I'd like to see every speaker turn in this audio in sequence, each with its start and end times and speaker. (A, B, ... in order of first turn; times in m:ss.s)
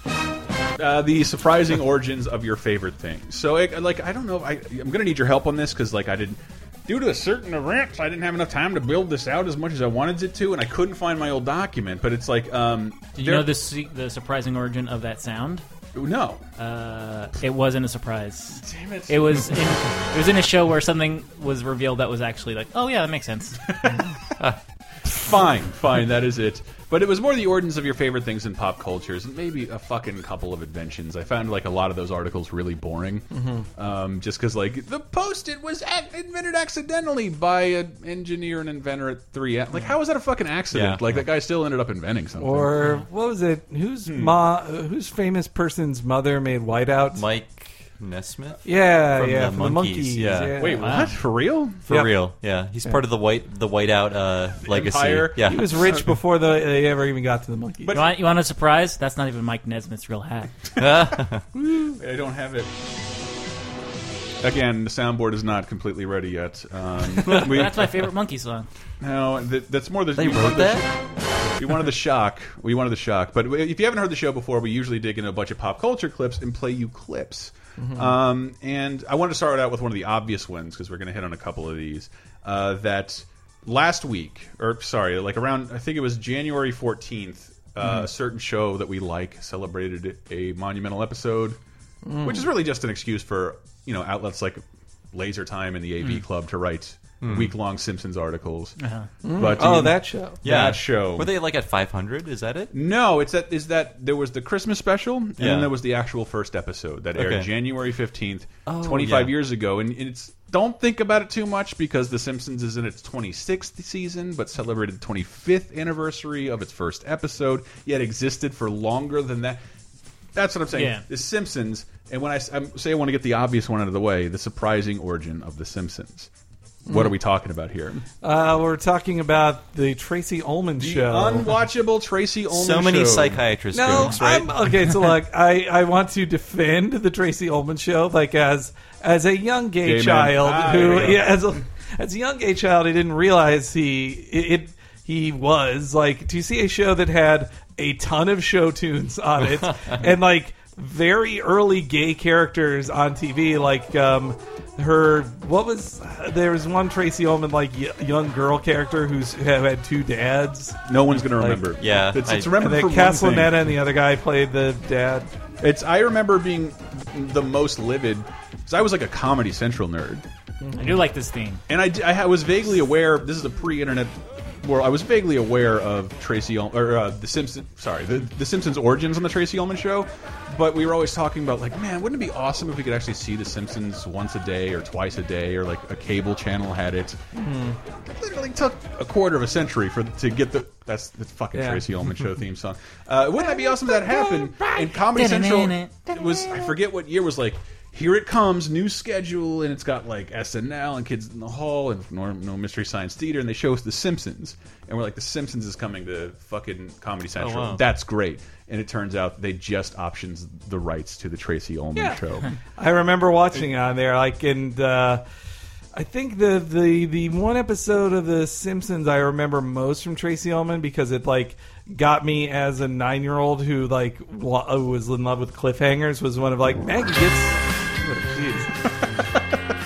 0:00.8-0:13.5 A
0:13.2-0:15.6 B
0:15.9-0:16.4 A
0:16.6-0:23.6 B
0:18.6-0:19.6 A
0:23.7-0:24.0 A
0:25.1-0:42.7 A
0:33.3-0:33.6 C
0:40.7-0:41.1 D
0:42.4-0:47.2 C
0:44.0-0:44.3 A
0:47.1-0:50.5 D
0:48.6-0:50.9 C
0:50.5-0:51.8 A
0:50.8-0:51.1 B
0:51.9-0:52.1 C
0:51.9-0:55.8 D
0:54.6-0:56.0 A
0:55.4-0:58.0 C
0:57.9-0:58.2 A
0:57.9-1:00.5 B
1:00.8-1:01.4 D
1:01.8-1:02.7 A
1:04.4-1:07.9 A
1:07.2-1:08.7 B
1:09.0-1:11.0 A
1:10.1-1:10.8 D
1:11.6-1:31.6 A
1:17.8-1:18.1 C
1:32.0-1:32.5 C
1:32.2-1:38.8 A
1:37.2-1:37.5 D
1:38.8-1:39.1 B
1:39.2-1:40.4 C
1:39.3-1:41.3 A
1:40.4-1:42.7 D
1:42.7-1:59.6 A
1:45.4-1:45.7 D
1:47.2-1:47.5 D
1:48.6-1:49.3 D
2:00.3-2:06.3 A
2:00.7-2:01.0 B
2:06.8-2:08.0 A
2:08.2-2:11.4 C
2:10.8-2:13.4 A
2:12.5-2:15.0 D
2:13.7-2:40.8 C
2:19.8-2:21.4 A
2:40.9-2:43.6 A
2:41.8-2:42.5 D
2:42.5-2:45.3 C
2:45.6-2:50.2 A
2:50.6-2:51.0 C
2:50.8-2:51.6 B
2:51.7-3:07.2 A
3:07.3-3:07.8 C
3:08.0-3:32.5 A
3:11.5-3:11.8 C
3:13.6-3:14.4 C
3:15.1-3:16.0 B
3:27.4-3:27.8 D
3:31.9-3:32.2 C
3:32.8-3:35.2 C
3:35.9-3:48.8 C